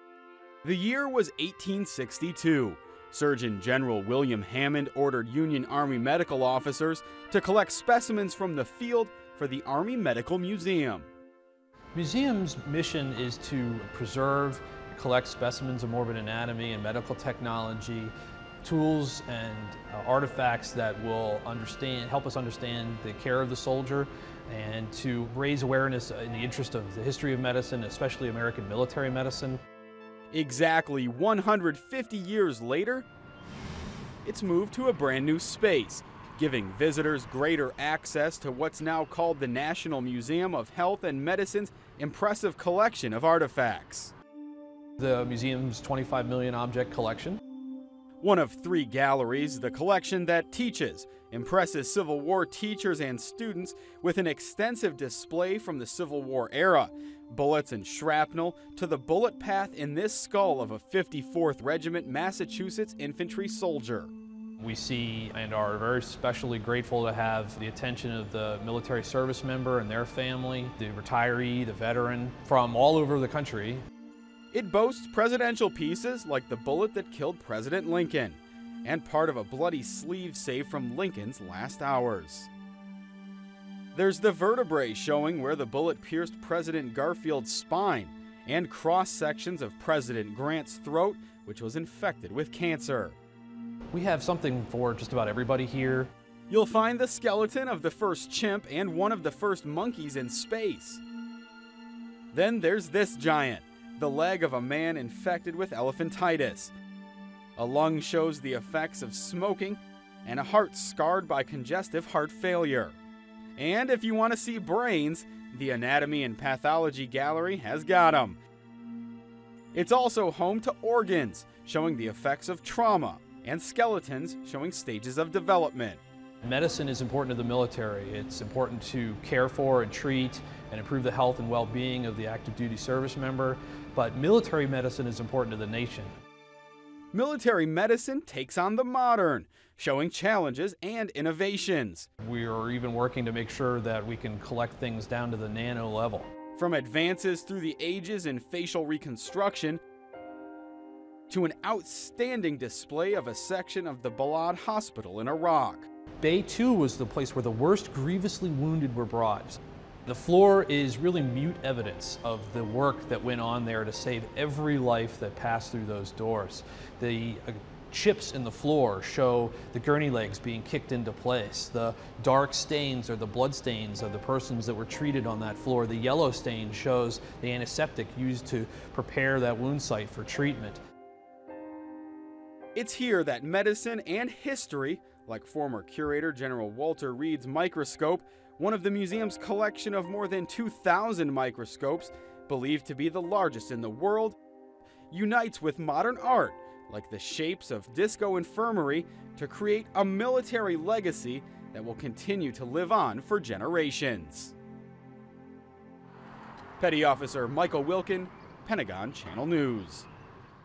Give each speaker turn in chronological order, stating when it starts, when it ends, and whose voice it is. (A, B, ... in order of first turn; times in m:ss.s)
0:00.6-0:11.1 A
0:11.9-0:18.1 B
0:18.6-0:29.6 B
0:30.3-0:33.0 A
0:34.2-0:44.1 A
0:45.0-0:47.4 B
0:48.2-1:04.1 A
1:04.6-1:13.8 B
1:14.5-1:22.5 A
1:23.9-1:33.2 A
1:33.9-1:36.1 B
1:36.5-1:41.0 A
1:42.3-1:46.7 A
1:47.6-1:53.0 A
1:53.6-1:58.4 A
1:59.7-2:06.0 A
2:06.4-2:16.1 B
2:17.1-2:22.1 A
2:22.2-2:26.3 B
2:26.6-2:29.8 A
2:31.3-2:35.9 A
2:36.2-3:00.8 B
3:02.7-3:14.4 A
3:15.1-3:24.5 A
3:26.8-3:30.1 A